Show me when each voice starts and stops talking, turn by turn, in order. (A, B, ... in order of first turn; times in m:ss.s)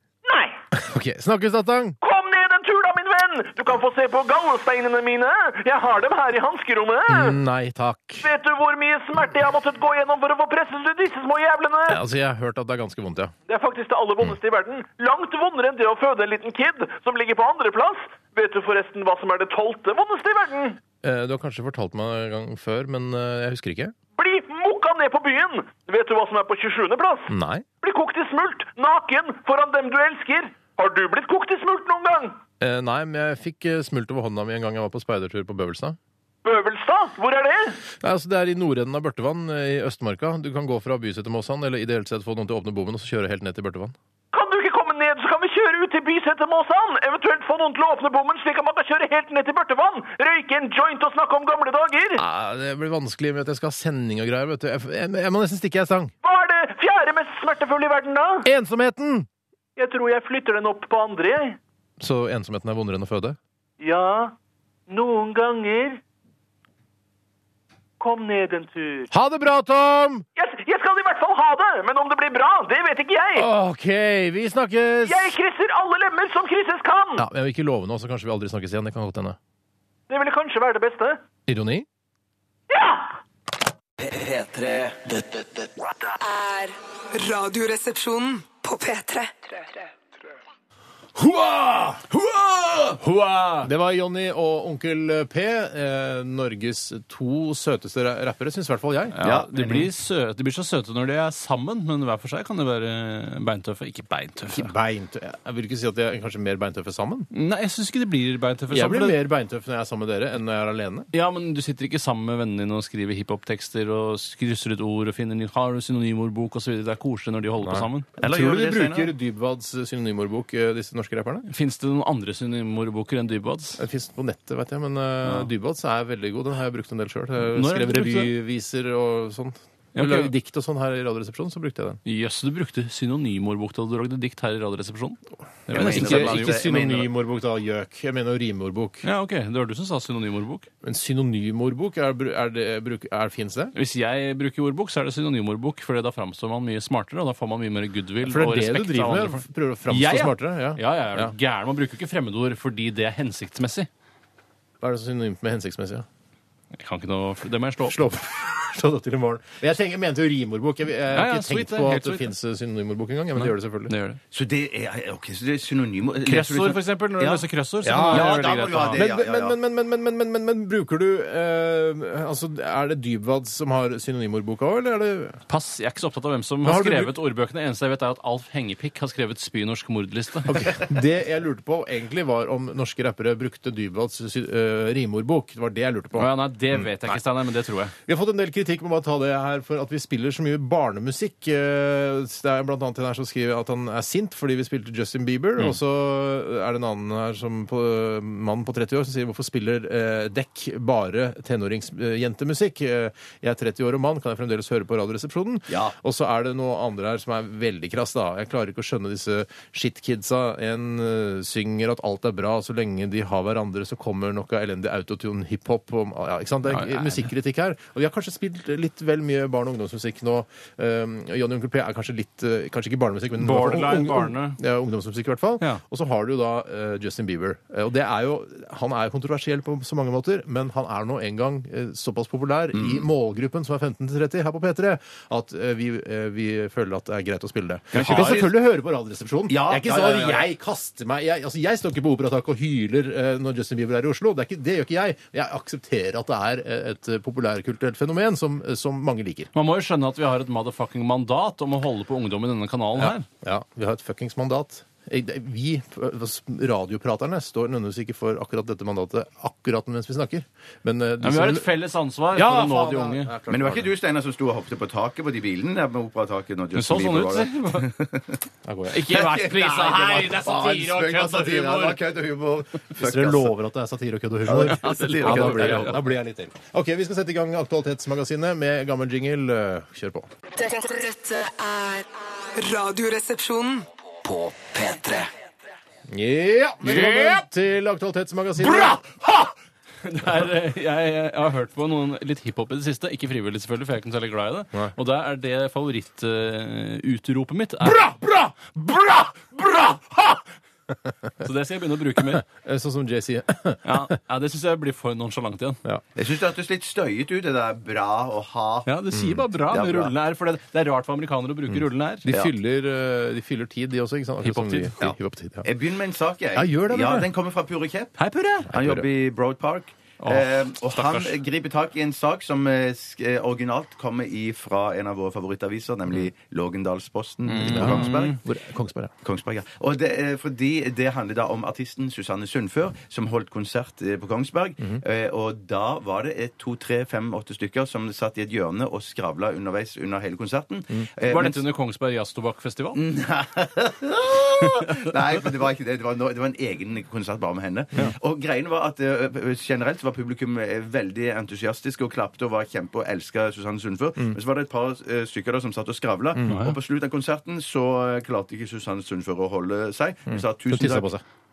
0:00.2-0:00.6 A
0:00.7-0:02.0 B
0:02.0-0:07.4 A
0:07.1-0:08.3 B
0:08.2-0:12.0 A
0:11.9-0:13.3 B
0:13.5-0:20.8 A
0:21.0-0:23.9 B
0:24.2-0:32.4 A
0:27.3-0:27.6 B
0:32.6-0:36.0 B
0:36.4-0:37.8 A
0:38.0-0:43.9 B
0:44.3-0:52.2 A
0:52.2-0:56.1 B
0:56.2-0:58.5 A
0:58.4-0:59.3 B
0:59.8-1:01.6 A
1:02.0-1:03.4 B
1:03.8-1:04.3 A
1:04.9-1:06.0 A
1:08.0-1:09.1 A
1:09.1-1:10.2 B
1:10.4-1:13.5 A
1:13.3-1:15.3 B
1:15.0-1:17.2 A
1:17.2-1:19.4 B
1:20.1-1:21.2 A
1:21.5-1:21.8 B
1:22.7-1:23.2 A
1:24.0-1:25.7 C
1:26.2-1:29.8 D
1:31.2-1:32.0 B
1:32.1-1:32.9 E
1:33.0-1:33.6 F
1:33.6-1:39.2 B
1:39.1-1:44.7 F
1:39.2-1:39.9 E
1:44.5-1:47.3 B
1:47.3-1:49.2 F
1:48.7-1:51.1 B
1:51.1-1:58.1 F
1:57.6-2:01.5 B
1:58.2-1:59.1 E
2:01.5-2:03.8 F
2:03.8-2:12.0 B
2:05.2-2:05.5 F
2:07.5-2:08.3 F
2:09.9-2:10.3 F
2:12.0-2:16.6 F
2:15.7-2:19.0 B
2:15.7-2:17.1 E
2:19.0-2:20.7 F
2:20.8-2:23.7 B
2:23.7-2:33.9 F
2:28.2-2:31.3 B
2:34.8-2:36.0 B
2:36.8-2:38.0 F
2:37.8-2:43.9 B
2:41.1-2:42.3 F
2:43.4-2:44.2 F
2:44.3-2:49.6 E
2:46.2-2:49.0 F
2:47.8-2:55.4 B
2:55.5-3:00.8 F
2:56.6-2:57.1 B
3:00.5-3:07.2 B
3:06.2-3:07.9 F
3:08.0-4:09.5 B
3:25.7-3:25.9 E
3:36.7-3:37.3 F
3:43.4-3:44.6 F
3:52.7-3:53.0 E
3:57.9-3:58.4 F
3:57.9-3:58.5 E
3:59.5-4:00.5 E
4:09.5-4:13.2 F
4:13.0-4:21.7 B
4:21.2-4:23.3 F
4:22.3-4:23.9 B
4:23.5-4:28.4 E
4:26.7-4:27.9 F
4:28.6-4:29.1 B
4:28.9-4:32.0 F
4:29.1-4:33.6 E
4:33.0-4:40.3 B
4:34.4-4:36.0 E
4:34.6-4:36.0 F
4:40.6-4:43.8 D
4:44.2-4:45.3 C
4:46.1-4:49.0 B
4:46.8-4:47.4 F
4:48.6-4:49.5 F
4:50.0-4:58.0 F
4:57.8-5:00.4 B
5:01.4-5:02.4 F
5:02.2-5:04.0 B
5:03.8-5:05.8 F
5:06.2-5:08.9 E
5:08.8-5:12.2 F
5:09.1-5:09.4 B
5:09.7-5:10.1 E
5:11.7-5:15.7 B
5:14.4-5:15.0 F
5:15.0-5:18.1 E
5:16.5-5:17.3 B
5:18.2-5:18.7 F
5:18.7-5:19.0 B
5:18.7-5:28.4 E
5:20.2-5:21.4 F
5:27.5-5:28.4 F
5:27.6-5:29.1 B
5:29.2-5:41.6 E
5:41.2-5:43.0 F
5:43.0-6:01.1 E
5:44.6-5:44.9 F
5:56.5-5:56.7 F
6:00.3-6:01.2 B